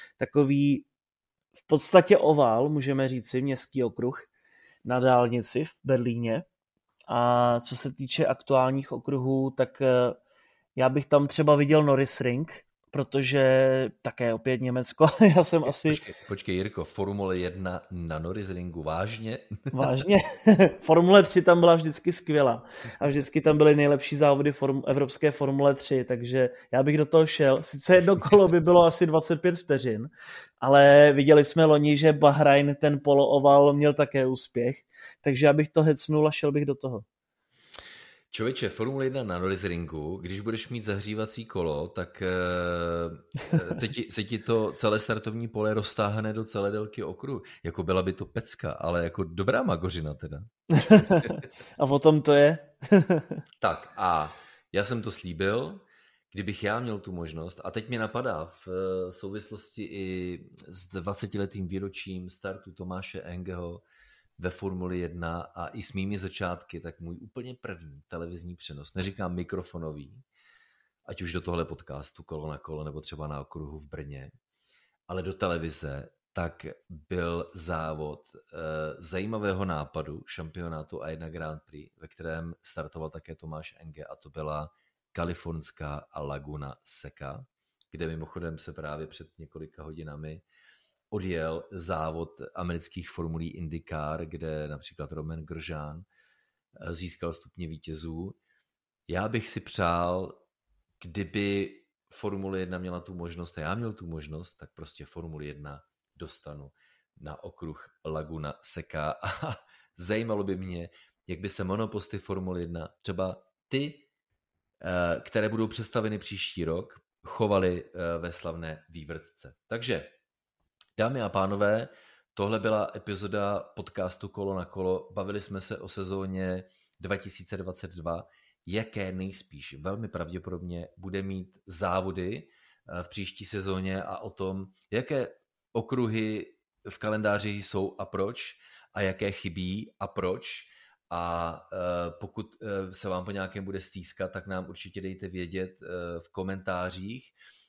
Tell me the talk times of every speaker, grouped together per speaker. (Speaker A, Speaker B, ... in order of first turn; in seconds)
Speaker A: 0.2-0.9, 1.7-4.3, 4.8-6.5, 7.1-10.2, 10.8-16.0, 19.7-37.0, 50.8-53.4
Speaker B: 15.7-19.8, 38.3-51.4, 53.6-63.8, 64.4-70.2, 71.1-74.3, 75.1-90.4, 91.1-96.1, 96.8-98.4, 99.1-100.4, 101.0-114.0, 114.8-120.1, 121.0-147.3